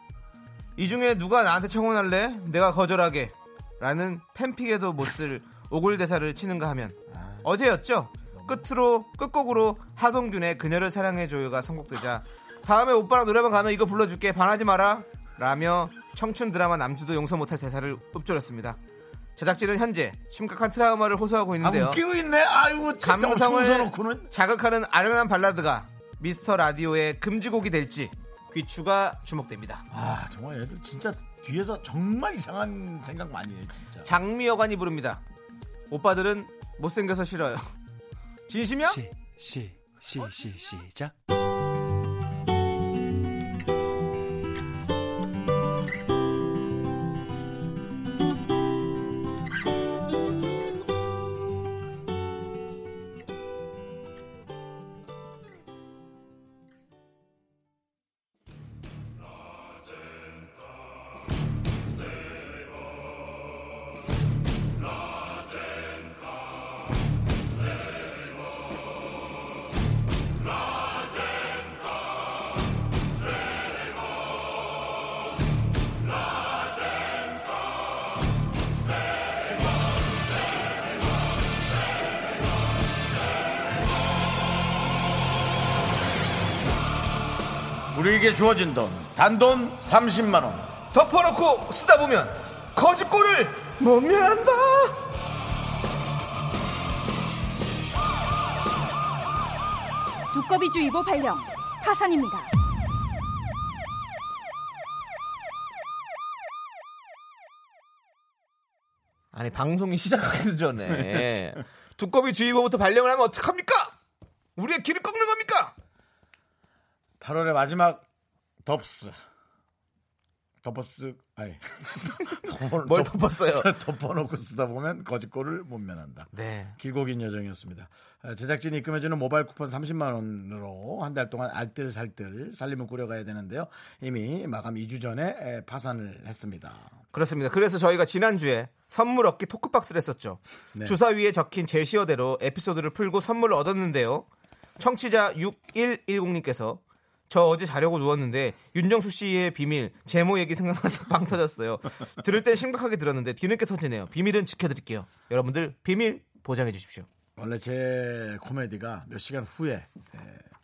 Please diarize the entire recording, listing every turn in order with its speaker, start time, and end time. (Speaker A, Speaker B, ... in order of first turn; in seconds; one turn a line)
Speaker A: 0.8-18.8
Speaker B: 7.1-7.5
Speaker B: 8.3-8.7
Speaker A: 19.4-22.0
Speaker B: 21.6-24.3
Speaker A: 23.0-29.9
Speaker B: 29.9-34.1
Speaker A: 34.0-35.2
Speaker A: 35.9-37.7
Speaker A: 38.5-39.0
Speaker B: 87.9-90.7
Speaker A: 90.9-95.0
Speaker C: 100.3-102.5
Speaker A: 109.3-113.9
Speaker A: 114.6-115.7
Speaker B: 117.2-118.1
Speaker B: 118.7-119.2
Speaker B: 120.6-136.9
Speaker A: 122.8-123.7
Speaker A: 126.3-126.8
Speaker A: 137.1-144.2
Speaker A: 144.8-157.1
Speaker B: 157.4-160.5